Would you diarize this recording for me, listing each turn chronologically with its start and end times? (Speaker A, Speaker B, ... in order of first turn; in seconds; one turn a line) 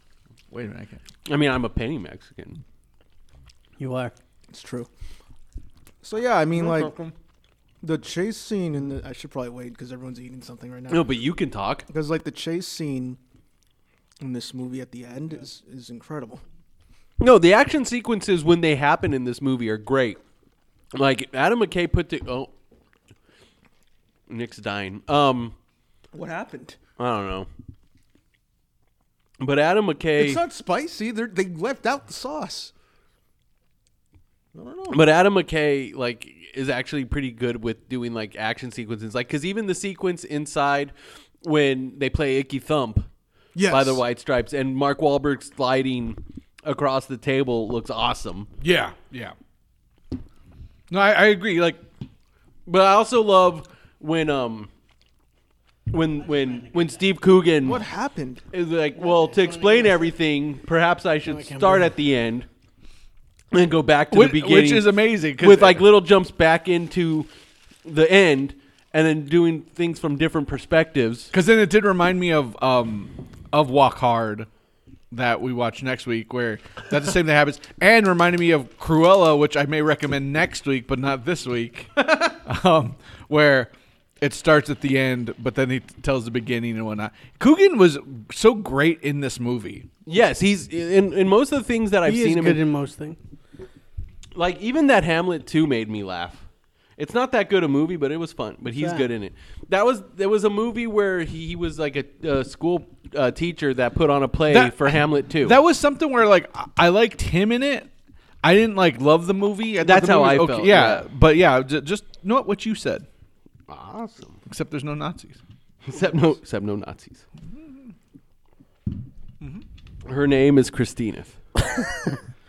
Speaker A: 0.5-1.0
Speaker B: 1.3-2.6
Speaker C: 3.8-4.1
Speaker D: 4.5-4.9
Speaker D: 6.0-7.0
Speaker A: 6.6-7.1
Speaker D: 7.8-11.1
Speaker B: 10.9-11.9
Speaker D: 11.9-13.2
Speaker D: 14.2-16.4
Speaker B: 17.2-20.2
Speaker B: 20.9-22.5
Speaker B: 24.3-25.5
Speaker D: 26.1-26.8
Speaker B: 27.0-27.5
Speaker B: 29.4-30.4
Speaker D: 30.2-32.7
Speaker D: 34.5-35.0
Speaker B: 34.9-43.1
Speaker D: 43.5-44.0
Speaker B: 43.7-48.5
Speaker A: 48.6-49.3
Speaker A: 50.9-51.8
Speaker B: 52.7-54.7
Speaker B: 55.9-57.8
Speaker C: 56.5-56.9
Speaker D: 57.6-58.4
Speaker B: 58.5-62.5
Speaker C: 59.0-60.1
Speaker C: 61.2-61.9
Speaker B: 63.5-67.3
Speaker A: 64.1-65.8
Speaker B: 67.8-71.3
Speaker A: 71.3-74.5
Speaker A: 75.1-89.9
Speaker B: 90.0-92.6
Speaker C: 92.0-93.2
Speaker B: 94.3-96.4
Speaker B: 97.0-105.6
Speaker C: 98.8-99.1
Speaker A: 104.5-107.9
Speaker A: 108.4-113.0
Speaker B: 109.8-111.1
Speaker B: 113.7-114.4
Speaker A: 114.5-115.4
Speaker B: 115.8-117.2
Speaker A: 117.5-117.9
Speaker A: 119.4-119.6
Speaker B: 120.0-121.4